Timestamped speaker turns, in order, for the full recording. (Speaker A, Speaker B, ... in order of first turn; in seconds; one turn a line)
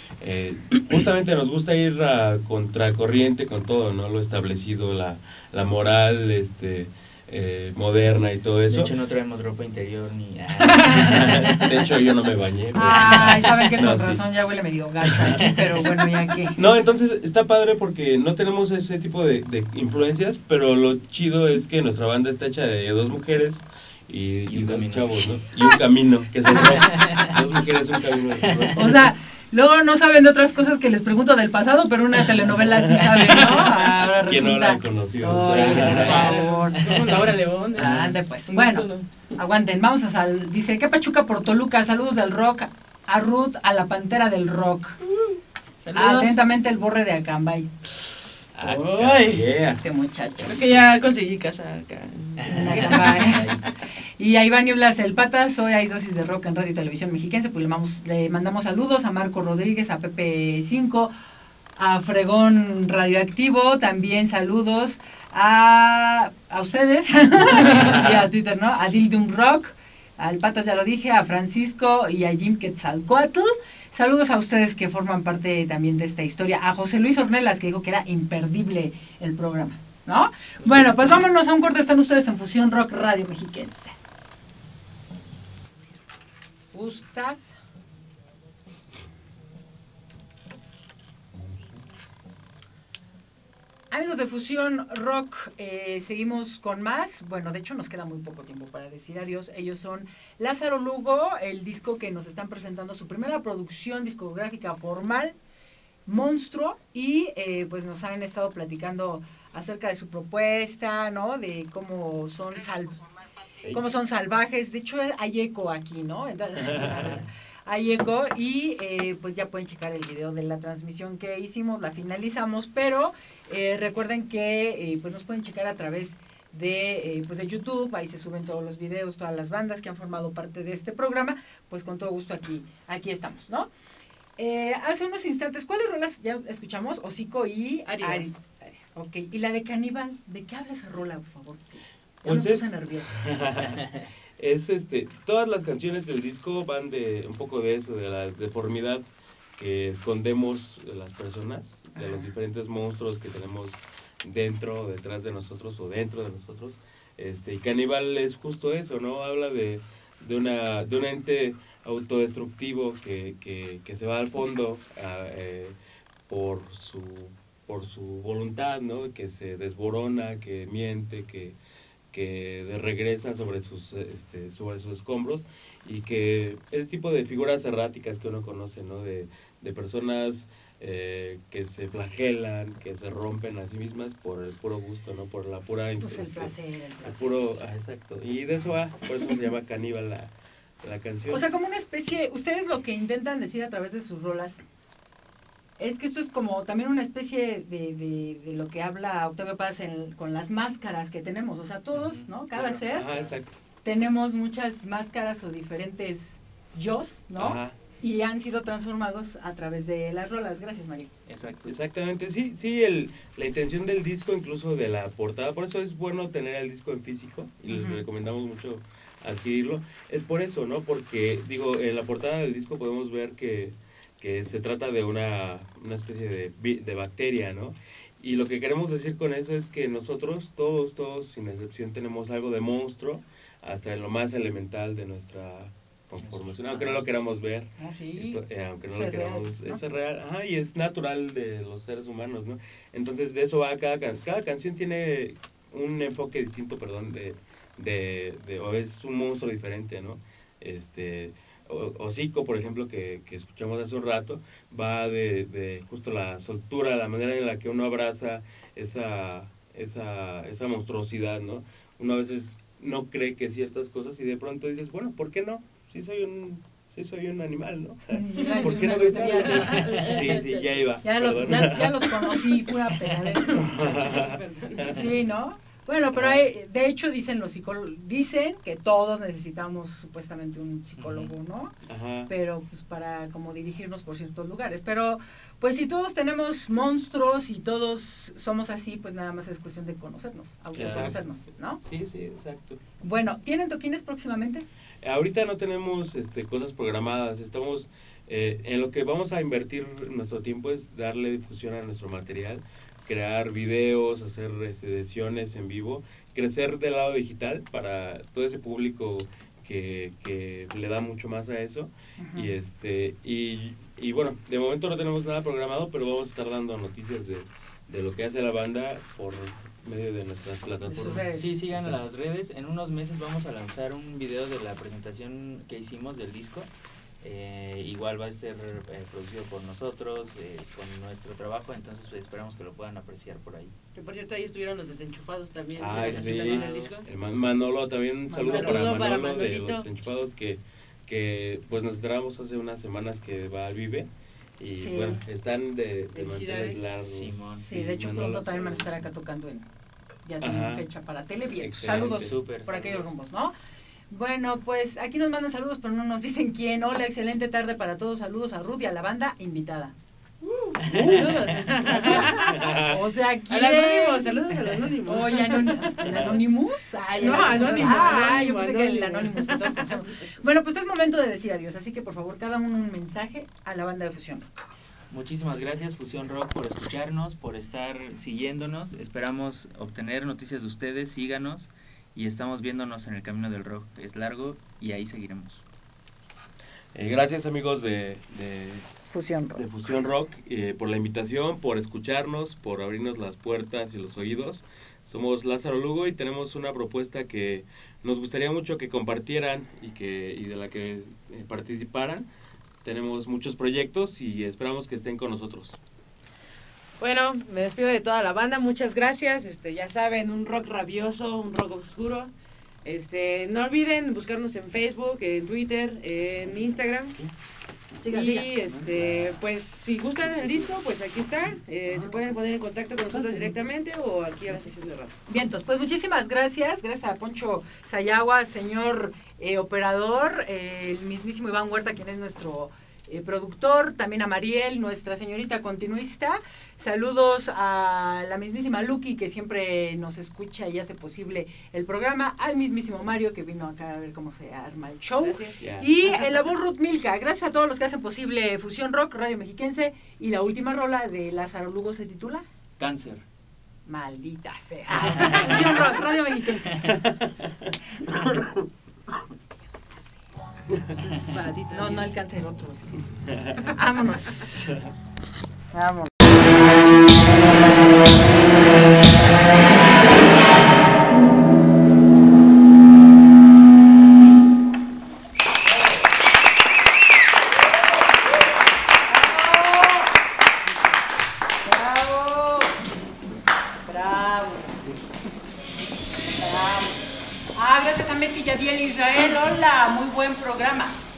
Speaker A: 0.2-8.9
Speaker B: 8.7-12.0
Speaker C: 10.7-11.1
Speaker A: 10.9-14.2
Speaker D: 12.8-16.6
Speaker B: 12.9-13.8
Speaker B: 15.3-15.9
Speaker A: 16.6-29.1
Speaker B: 24.5-25.3
Speaker B: 26.6-27.3
Speaker B: 28.5-28.7
Speaker D: 28.7-36.8
Speaker A: 32.7-36.4
Speaker C: 33.2-33.8
Speaker C: 35.5-39.1
Speaker B: 35.5-36.2
Speaker B: 36.8-37.1
Speaker D: 37.8-45.0
Speaker C: 45.1-46.4
Speaker D: 46.0-47.7
Speaker A: 48.6-49.8
Speaker C: 48.6-49.5
Speaker D: 49.8-50.6
Speaker C: 50.5-53.7
Speaker B: 52.4-53.6
Speaker D: 52.5-53.5
Speaker D: 54.2-61.1
Speaker D: 61.8-83.9
Speaker D: 86.7-87.5
Speaker D: 93.9-105.3
Speaker D: 106.1-113.0
Speaker D: 113.7-133.7
Speaker A: 116.7-117.0
Speaker D: 134.4-143.2
Speaker C: 137.9-138.3
Speaker A: 142.2-143.8
Speaker A: 144.4-149.0
Speaker A: 149.6-165.8
Speaker D: 152.0-152.3
Speaker A: 166.3-171.6
Speaker A: 172.1-190.3
Speaker D: 186.0-187.6
Speaker A: 190.8-191.5
Speaker D: 191.3-194.6
Speaker D: 195.8-203.1
Speaker B: 201.9-202.3
Speaker A: 202.6-203.5
Speaker B: 203.1-203.3
Speaker D: 203.8-211.1
Speaker A: 207.4-207.8
Speaker B: 211.3-211.8
Speaker A: 211.7-272.2
Speaker D: 217.7-218.0
Speaker B: 236.2-237.1
Speaker D: 237.8-238.4
Speaker D: 238.9-239.8
Speaker D: 268.1-270.0
Speaker C: 268.4-270.8
Speaker B: 269.5-270.3
Speaker D: 271.0-274.2
Speaker A: 273.5-275.1
Speaker C: 273.6-275.1
Speaker D: 274.8-281.7
Speaker A: 276.2-276.4
Speaker B: 281.0-281.4
Speaker A: 281.9-282.3
Speaker D: 282.3-291.8
Speaker A: 290.8-291.2
Speaker A: 291.9-292.8
Speaker D: 293.0-294.7
Speaker A: 295.0-322.0
Speaker D: 312.2-312.5
Speaker D: 320.8-321.5
Speaker B: 321.3-326.7
Speaker B: 327.2-333.7
Speaker C: 333.9-337.1
Speaker A: 335.8-349.1
Speaker B: 335.9-336.9
Speaker D: 338.3-338.8
Speaker C: 338.4-339.9
Speaker D: 344.8-345.2
Speaker C: 346.1-346.9
Speaker B: 347.0-347.7
Speaker D: 347.6-349.7
Speaker D: 350.3-353.5
Speaker A: 350.4-350.9
Speaker A: 351.6-352.3
Speaker B: 351.8-353.1
Speaker D: 354.1-359.9
Speaker C: 360.4-362.7
Speaker B: 360.8-361.8
Speaker D: 361.9-364.4
Speaker A: 362.2-363.0
Speaker C: 363.5-366.3
Speaker D: 365.0-374.5
Speaker A: 366.0-366.4
Speaker C: 367.2-370.3
Speaker B: 375.1-385.6
Speaker A: 386.9-388.9
Speaker D: 389.1-389.6
Speaker A: 389.6-402.3
Speaker A: 402.8-405.8
Speaker C: 407.0-412.3
Speaker C: 412.9-417.3
Speaker D: 418.0-418.5
Speaker C: 418.1-425.2
Speaker D: 425.3-452.4
Speaker C: 445.2-445.6
Speaker A: 445.6-445.9
Speaker B: 452.8-453.2
Speaker D: 453.9-457.1
Speaker B: 455.0-455.8
Speaker A: 458.1-458.5
Speaker C: 460.9-462.1
Speaker D: 461.7-463.0
Speaker A: 463.3-463.6
Speaker D: 463.7-464.8
Speaker D: 465.7-466.3
Speaker D: 479.1-480.1
Speaker D: 481.6-482.7
Speaker D: 483.9-484.8
Speaker D: 486.4-487.0
Speaker D: 487.6-491.0